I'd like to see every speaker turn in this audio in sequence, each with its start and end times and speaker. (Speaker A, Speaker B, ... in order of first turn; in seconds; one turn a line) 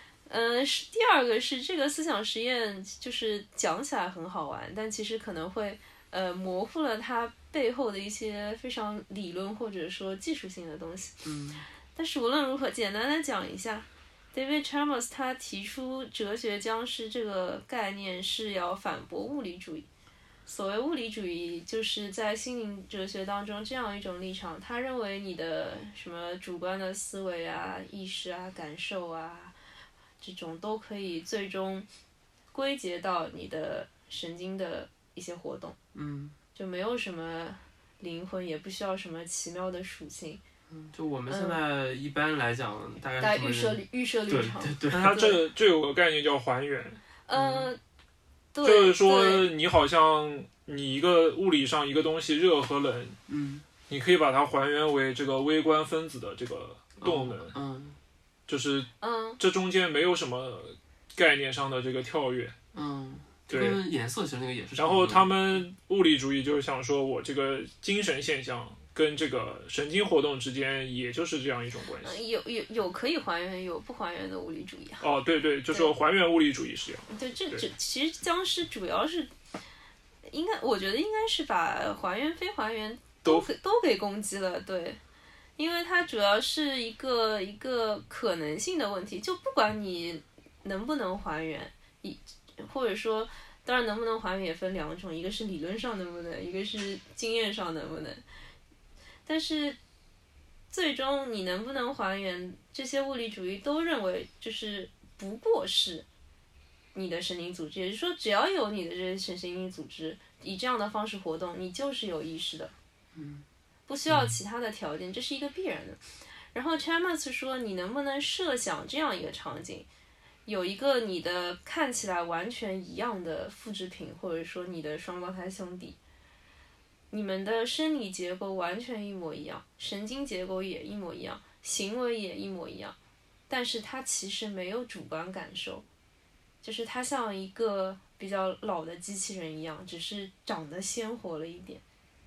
Speaker A: 0.3-11.2
Speaker B: 11.2-11.6
Speaker A: 11.9-19.9
Speaker A: 20.4-29.5
Speaker A: 30.2-31.9
Speaker A: 32.5-35.8
Speaker B: 35.9-36.4
Speaker A: 36.5-40.4
Speaker B: 40.7-45.3
Speaker A: 41.3-41.6
Speaker A: 43.2-45.4
Speaker C: 44.9-47.0
Speaker A: 47.3-47.8
Speaker B: 47.3-47.7
Speaker A: 48.5-49.5
Speaker C: 48.6-53.2
Speaker B: 53.3-53.6
Speaker C: 53.9-57.5
Speaker B: 57.0-58.0
Speaker C: 58.5-62.5
Speaker A: 59.0-59.4
Speaker B: 62.7-65.6
Speaker C: 63.5-63.8
Speaker C: 64.8-72.2
Speaker A: 72.0-75.0
Speaker C: 75.0-77.7
Speaker A: 77.1-79.3
Speaker A: 80.3-85.0
Speaker A: 85.6-98.2
Speaker A: 99.2-99.8
Speaker A: 100.7-106.0
Speaker A: 106.9-112.7
Speaker B: 113.1-113.4
Speaker A: 113.9-116.0
Speaker A: 116.5-119.9
Speaker A: 120.5-126.0
Speaker A: 127.1-132.9
Speaker A: 133.5-135.8
Speaker A: 136.6-141.8